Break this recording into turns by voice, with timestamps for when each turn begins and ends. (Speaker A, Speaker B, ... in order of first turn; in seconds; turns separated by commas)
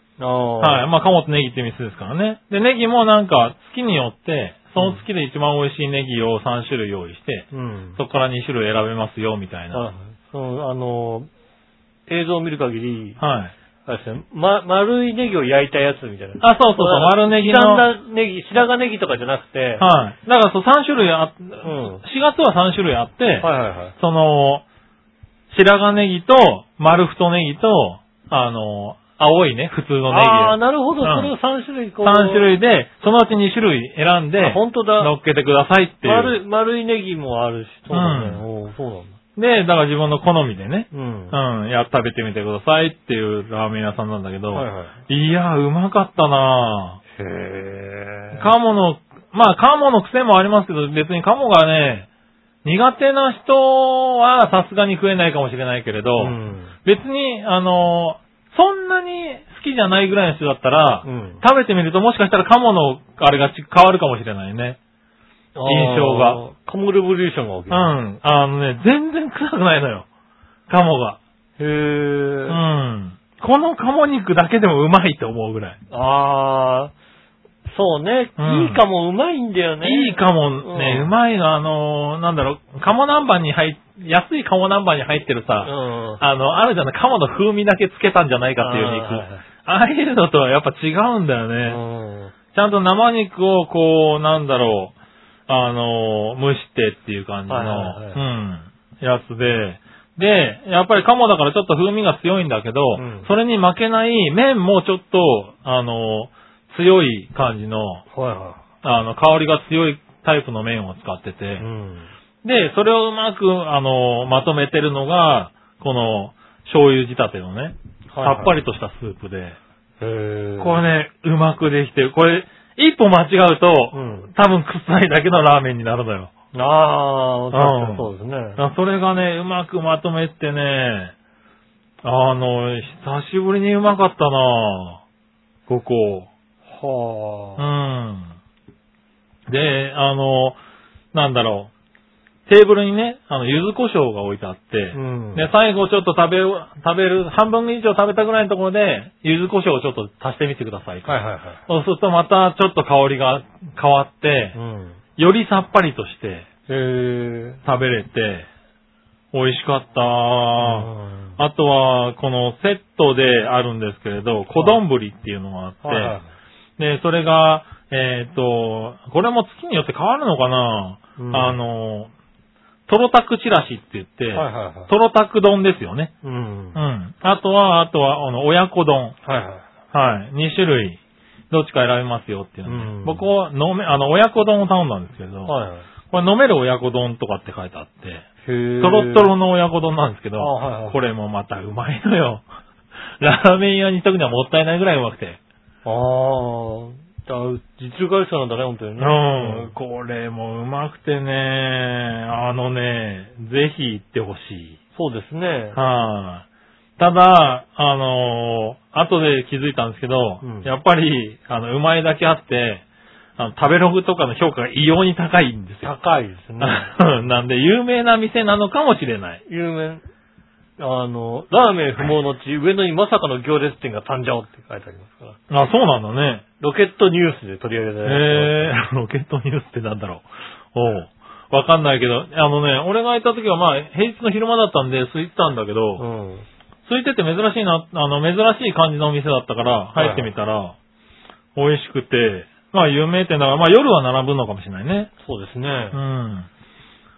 Speaker A: 0.2-0.8, Speaker B: 0.6-9.8, Speaker A: 7.5-8.0, Speaker A: 9.7-11.3, Speaker A: 12.1-13.2, Speaker B: 13.2-13.5, Speaker A: 13.8-19.9, Speaker B: 16.4-17.9, Speaker B: 19.8-23.5, Speaker A: 21.6-22.0, Speaker A: 23.4-23.9, Speaker B: 24.0-24.6, Speaker B: 25.5-31.3, Speaker A: 30.1-32.5, Speaker B: 32.0-36.3, Speaker A: 34.4-35.1, Speaker A: 36.0-39.1, Speaker B: 37.9-38.4, Speaker B: 39.4-47.0, Speaker A: 40.9-41.4, Speaker A: 44.5-45.0, Speaker A: 47.2-48.5, Speaker B: 48.3-52.1, Speaker B: 52.6-64.8, Speaker A: 56.2-56.7, Speaker A: 61.0-61.4, Speaker A: 65.5-67.9, Speaker B: 65.7-66.4, Speaker B: 67.7-70.0, Speaker B: 70.7-71.2, Speaker A: 71.6-72.6, Speaker B: 72.5-75.8, Speaker A: 75.9-76.9, Speaker A: 77.7-81.1, Speaker B: 78.4-78.8, Speaker B: 79.8-91.8, Speaker A: 85.6-86.2, Speaker A: 88.6-89.4, Speaker A: 91.7-92.3, Speaker B: 92.5-94.9, Speaker B: 95.5-108.0, Speaker A: 97.5-98.2, Speaker A: 103.0-103.3, Speaker A: 108.1-108.6, Speaker B: 108.8-111.6, Speaker A: 111.6-112.1, Speaker B: 112.4-119.6, Speaker A: 118.1-118.5, Speaker A: 120.0-120.8, Speaker B: 120.6-126.3, Speaker A: 123.9-124.3, Speaker A: 126.5-128.6, Speaker B: 127.5-131.1, Speaker B: 132.0-135.0, Speaker B: 135.7-136.3, Speaker A: 136.7-137.7, Speaker B: 137.6-138.3, Speaker B: 139.5-140.6, Speaker B: 141.1-141.7, Speaker B: 142.5-151.2, Speaker A: 144.9-145.5, Speaker A: 151.1-151.6, Speaker B: 151.7-154.6, Speaker A: 154.5-155.0, Speaker B: 155.2-156.5, Speaker A: 156.7-157.6, Speaker B: 157.6-158.5, Speaker B: 159.3-166.2, Speaker A: 160.6-161.4, Speaker A: 165.8-166.3, Speaker B: 166.8-172.1, Speaker A: 171.2-171.6, Speaker B: 172.9-176.1, Speaker A: 174.3-174.9, Speaker A: 176.2-176.8, Speaker B: 176.7-179.1, Speaker A: 179.2-179.6, Speaker B: 179.9-181.0, Speaker B: 181.5-185.5, Speaker A: 182.6-183.2, Speaker A: 185.4-185.9, Speaker B: 186.1-188.2, Speaker A: 188.4-189.3, Speaker B: 188.8-192.4, Speaker A: 190.4-191.0, Speaker B: 193.2-195.4, Speaker A: 195.8-199.7, Speaker B: 199.0-204.8, Speaker A: 204.9-205.8, Speaker B: 205.7-206.4, Speaker B: 207.0-212.8, Speaker A: 210.4-210.7, Speaker B: 213.4-215.9, Speaker A: 215.8-216.9, Speaker B: 216.6-219.4, Speaker A: 219.5-220.0, Speaker A: 220.8-225.4, Speaker B: 225.5-226.4, Speaker A: 226.6-228.8, Speaker B: 228.0-236.0, Speaker A: 236.0-236.5, Speaker B: 236.8-240.8, Speaker A: 239.9-240.3, Speaker B: 241.5-245.1, Speaker A: 245.2-246.0, Speaker B: 245.9-246.5